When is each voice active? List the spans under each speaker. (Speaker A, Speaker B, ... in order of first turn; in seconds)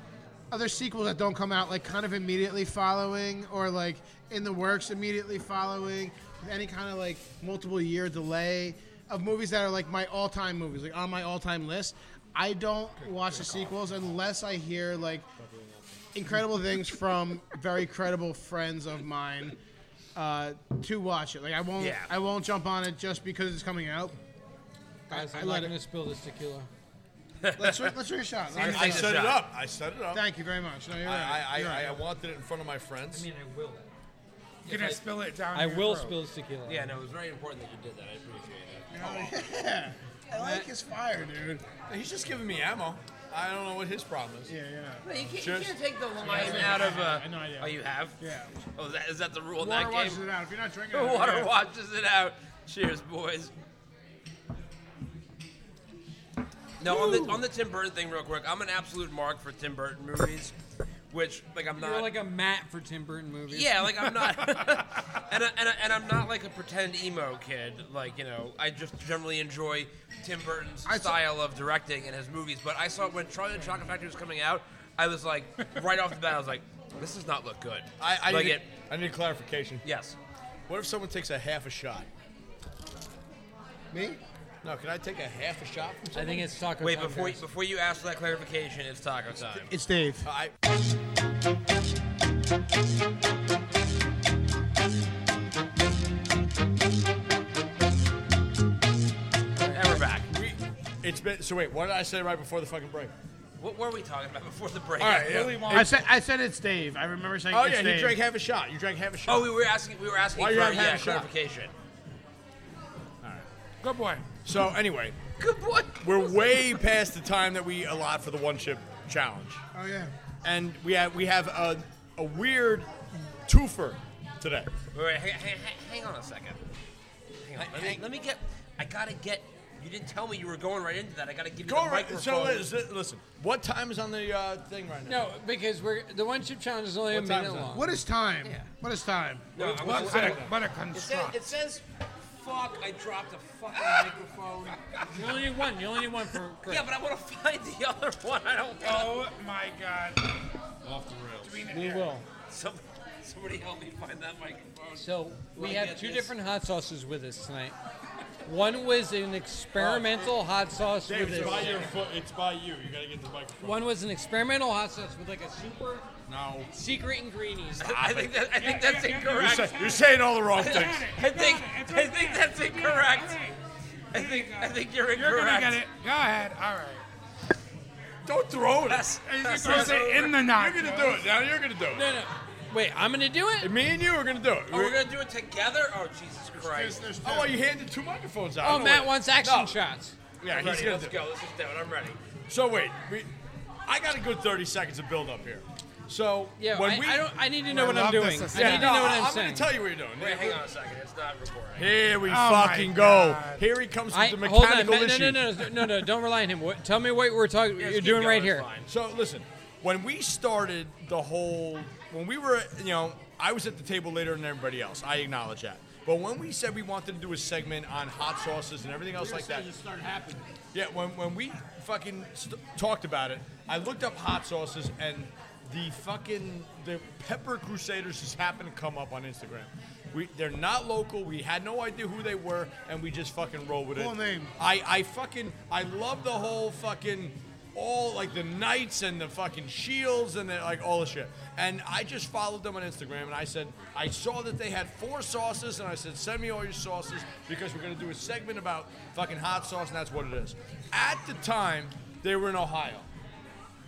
Speaker A: 0.5-15.3, 16.1-19.6, 20.1-24.2, 25.1-25.7, 27.6-29.2, 30.1-32.0, 38.9-41.6, 44.5-45.0, 46.2-48.5, 49.6-51.5, 56.9-57.4, 70.8-71.2, 83.9-84.2, 89.7-90.3, 105.7-108.2, 119.7-120.1, 137.7-139.5, 186.6-187.6, 219.2-220.5, 233.9-234.5
Speaker B: 21.8-22.1, 27.4-27.9, 28.5-29.4, 36.6-39.3, 45.0-48.2, 48.7-50.2, 50.9-53.5, 56.8-60.5, 61.1-62.2, 63.5-78.6, 79.8-80.2, 86.8-89.7, 99.7-100.3, 103.6-105.5, 109.2-111.7, 115.4-116.8, 124.9-126.6, 127.4-132.7, 139.5-141.8, 142.4-144.8, 146.7-149.2, 152.5-156.3, 167.8-169.8, 170.6-173.4, 174.1-175.8, 178.8-180.4, 184.7-187.0, 190.5-192.2, 200.2-201.9, 207.8-208.9
Speaker C: 25.1-26.7, 33.1-33.9, 34.7-34.9, 35.5-36.9, 40.4-40.7, 61.8-63.8, 86.1-87.4, 135.1-137.9, 145.1-146.8, 151.7-152.2, 154.9-157.8, 158.4-161.9, 163.6-166.1, 166.7-168.3, 181.9-183.7, 188.6-190.1, 196.6-199.7, 204.1-208.7
Speaker D: 28.6-30.2, 31.0-33.2, 41.9-44.5, 45.4-45.8, 46.4-46.9, 78.0-79.8, 80.7-82.1, 84.6-86.5, 90.2-90.5, 100.3-103.1, 105.0-106.0, 107.5-109.5, 110.3-111.3, 114.4-115.2, 116.0-119.6, 120.4-124.7, 127.5-128.0, 131.6-135.2, 137.1-137.7, 139.6-140.5, 150.8-151.7, 159.7-160.3, 161.1-163.8, 166.3-166.7, 169.3-171.1, 178.2-179.1, 179.6-182.2, 183.6-185.0, 187.2-189.7, 190.4-191.3, 192.5-193.3, 193.8-197.3, 198.5-200.6, 201.8-206.0, 208.8-219.7, 220.7-253.1
Speaker E: 34.6-36.2, 105.1-106.0, 113.8-114.2, 139.6-141.4, 148.8-150.2, 151.4-152.2, 168.5-173.6, 174.1-177.0, 179.2-181.2, 197.7-199.0, 202.2-203.6